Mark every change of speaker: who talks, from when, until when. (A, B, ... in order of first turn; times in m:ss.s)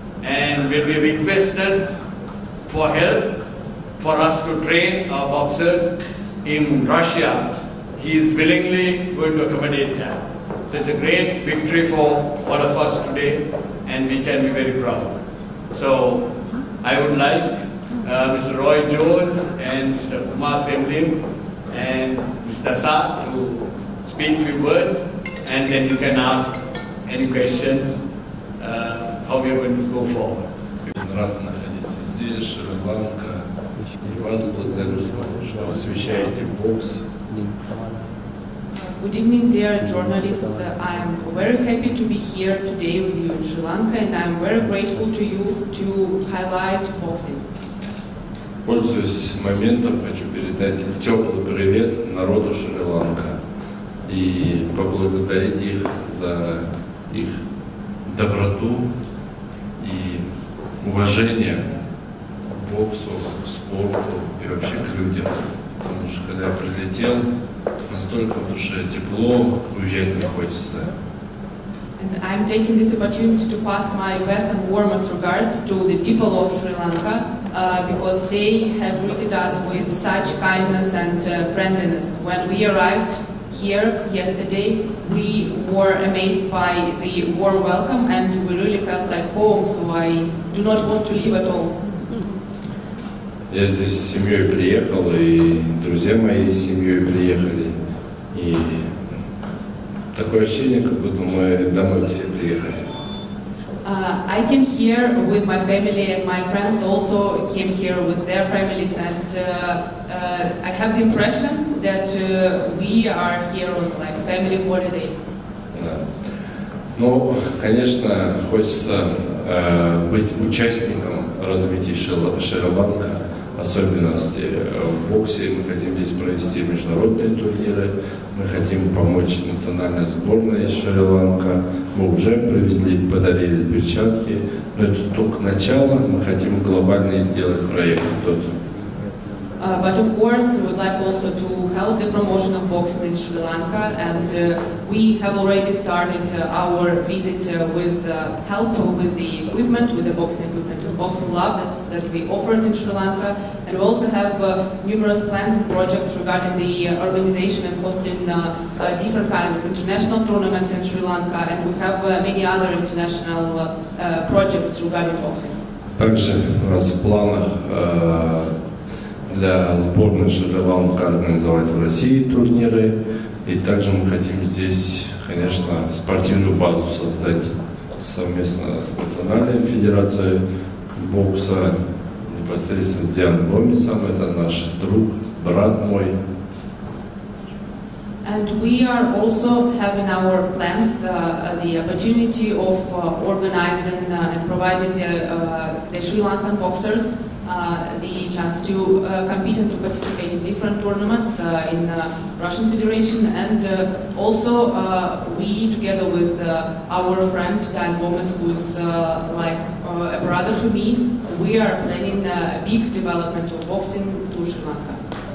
0:00.2-0:01.9 A
0:02.7-0:03.4 A
0:04.0-0:15.1 A
0:15.7-0:28.0 A
0:28.6-0:30.5 A
0:30.8-0:33.4 B
0:34.0-0:37.1 B
0:38.7-0:47.5 C
0:48.6-0:53.4 B
0:54.1-0:57.3 B
0:58.1-0:58.9 B
0:59.8-1:00.2 B
1:00.8-1:01.6 B
1:02.5-1:07.2 B
1:07.9-1:10.9 B
1:12.0-1:31.8 C
1:33.5-1:37.8 B
1:38.3-1:38.9 B
1:40.1-1:42.8 B
1:43.8-1:55.2 C
1:55.7-1:56.0 B
1:57.0-2:18.5 B
2:19.6-2:45.6 C
2:46.0-2:48.5 B
2:49.3-3:00.4 B
3:00.9-3:06.2 B
3:08.2-3:35.0 C